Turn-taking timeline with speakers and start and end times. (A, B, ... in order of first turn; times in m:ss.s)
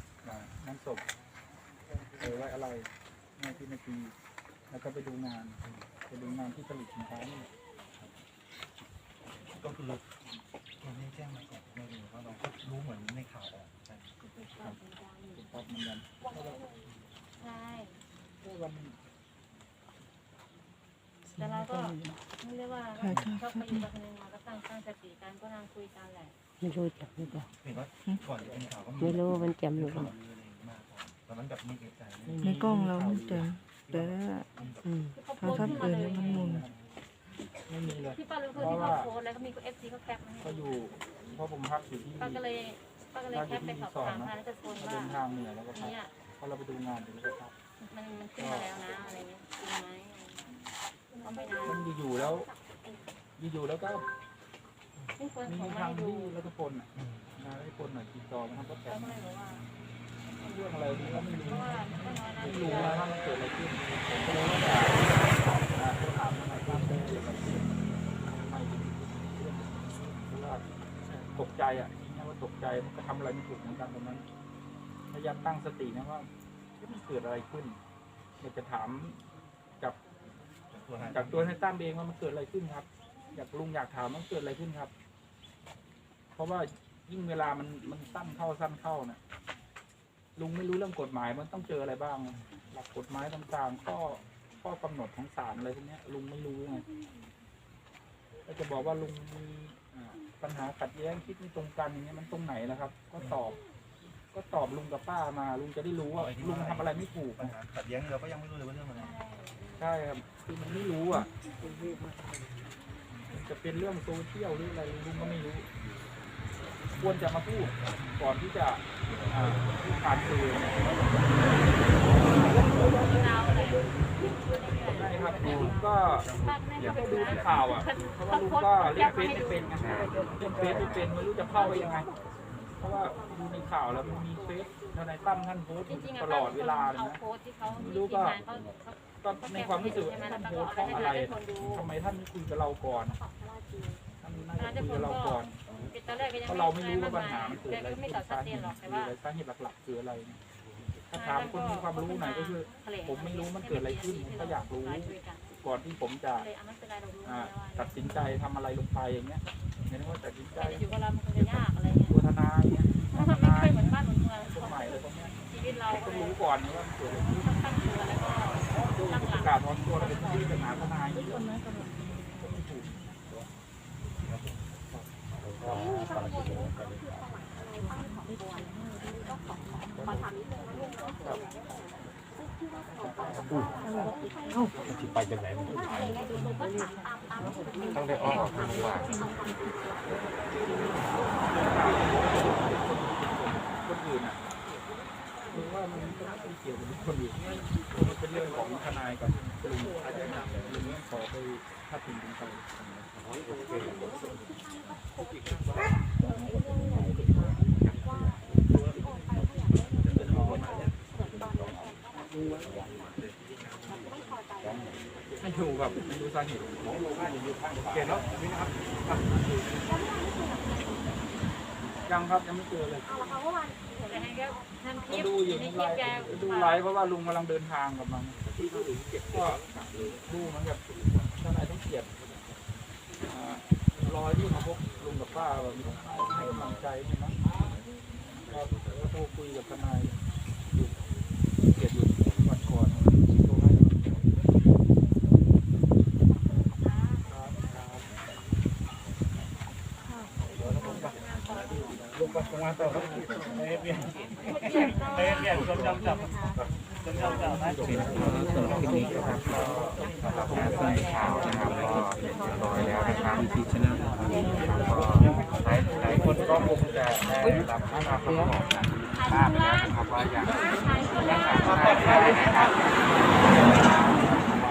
0:00.2-0:01.0 A
0:02.2-0:04.2 A
0:04.7-0:07.5 A
0:09.5-0:10.1 B
0:10.8-0:14.1 B
0:14.2-0:15.4 C
0:15.3-0:16.6 A
0:17.4-0:18.0 C
0:18.4-0:19.0 A
0:21.3-0:22.2 D
0:21.4-0:26.4 C
0:23.0-0:23.9 D
0:26.6-0:27.5 E
0:27.6-0:32.6 B
0:29.0-0:30.1 E
0:32.3-0:32.6 E
0:32.4-0:34.5 D
0:32.5-0:34.0 A
0:34.6-0:34.8 B
0:34.8-0:35.2 E
0:35.1-0:36.5 C
0:35.3-0:36.6 D
0:35.5-0:36.8 A
0:37.7-0:39.1 A
0:38.2-0:40.7 C
0:40.4-0:42.4 A
0:42.2-0:45.2 C
0:43.3-0:47.5 A
0:45.8-0:46.1 C
0:47.8-0:50.6 C
0:48.4-0:48.7 A
0:51.2-0:51.8 C
0:51.7-0:52.5 A
0:53.4-0:54.0 A
0:55.2-0:56.4 C
0:55.5-0:59.2 A
0:57.0-0:57.3 B
0:58.9-0:59.7 C
1:00.4-1:01.7 A
1:01.5-1:03.0 C
1:02.4-1:10.6 A
1:04.0-1:04.4 C
1:11.3-1:14.3 A
1:15.1-1:16.3 A
1:16.8-1:17.8 A
1:18.4-1:19.2 A
1:20.7-1:21.6 B
1:21.0-1:24.9 A
1:26.4-1:29.2 A
1:30.4-1:36.8 A
1:38.5-1:43.6 A
1:44.3-1:47.6 A
1:46.2-1:49.2 B
1:49.0-1:49.9 C
1:49.8-1:51.3 A
1:53.3-1:55.7 A
1:57.0-2:01.0 A
2:02.0-2:02.6 A
2:02.8-2:09.9 C
2:05.0-2:12.1 A
2:12.8-2:17.2 A
2:16.0-2:18.9 C
2:17.8-2:18.4 A
2:19.2-2:23.2 A
2:19.5-2:21.8 C
2:24.2-2:25.6 A
2:24.6-2:29.1 C
2:26.5-2:30.4 A
2:31.1-2:36.5 A
2:31.1-2:35.4 C
2:36.4-2:38.0 C
2:37.2-2:40.8 A
2:40.6-2:42.2 C
2:41.4-2:43.8 A
2:43.1-2:46.4 C
2:44.5-2:47.5 A
2:47.4-2:50.1 C
2:48.8-2:51.6 A
2:52.4-2:52.9 A
2:54.2-2:54.7 B
3:00.0-3:00.2 A
3:11.6-3:14.4 A
3:15.5-3:17.4 A
3:18.0-3:22.8 A
3:35.4-3:36.8 A
3:42.1-3:43.1 A
3:44.1-3:46.8 C
3:45.1-3:48.4 A
3:49.3-3:52.1 A
3:53.3-3:57.4 A
3:58.5-4:00.2 A
4:00.7-4:01.0 A
4:01.6-4:04.2 A
4:06.8-4:07.3 C
4:14.7-4:15.7 C
4:17.9-4:19.4 F
4:18.3-4:19.1 E
4:20.5-4:22.1 F
4:20.6-4:22.0 B
4:22.8-4:24.0 F
4:22.8-4:23.2 B
4:25.9-4:26.7 B
4:28.1-4:28.5 F
4:29.2-4:32.7 C
4:31.6-4:32.6 B